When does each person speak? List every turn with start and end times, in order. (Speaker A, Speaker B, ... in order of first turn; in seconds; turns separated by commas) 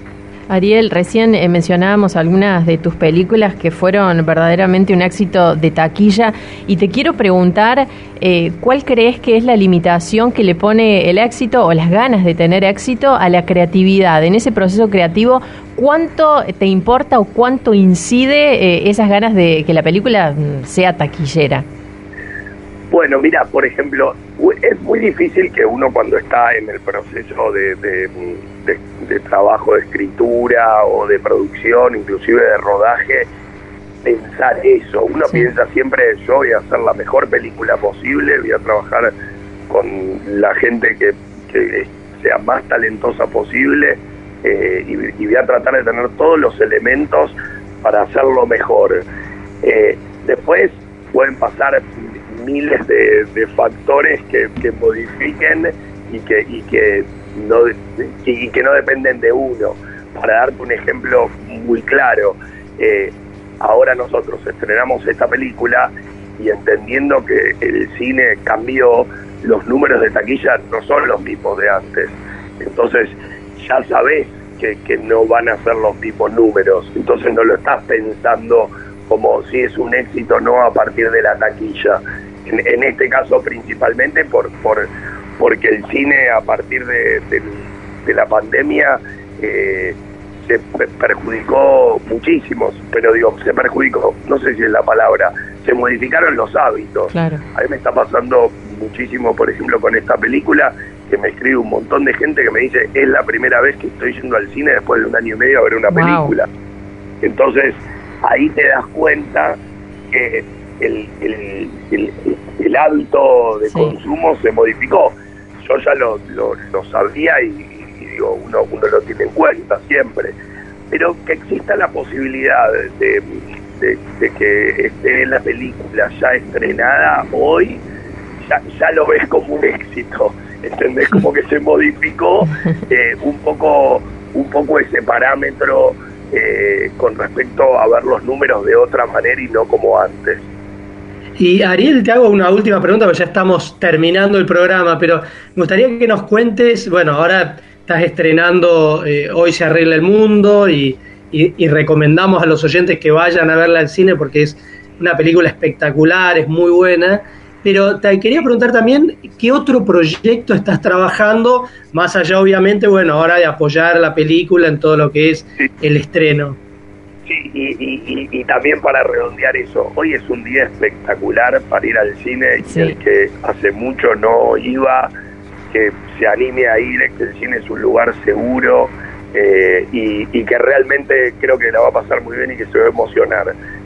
Speaker A: 0.5-21.6, Speaker B: 22.9-33.3, Speaker B: 34.0-39.1, Speaker B: 39.7-49.0, Speaker B: 49.6-106.5, Speaker A: 97.1-97.4, Speaker A: 105.9-106.3, Speaker B: 107.2-109.6, Speaker B: 110.1-120.3, Speaker A: 113.7-114.0, Speaker B: 120.9-127.8, Speaker B: 128.4-140.4, Speaker C: 141.4-166.6, Speaker B: 167.2-175.1, Speaker A: 172.6-173.0, Speaker B: 175.7-183.5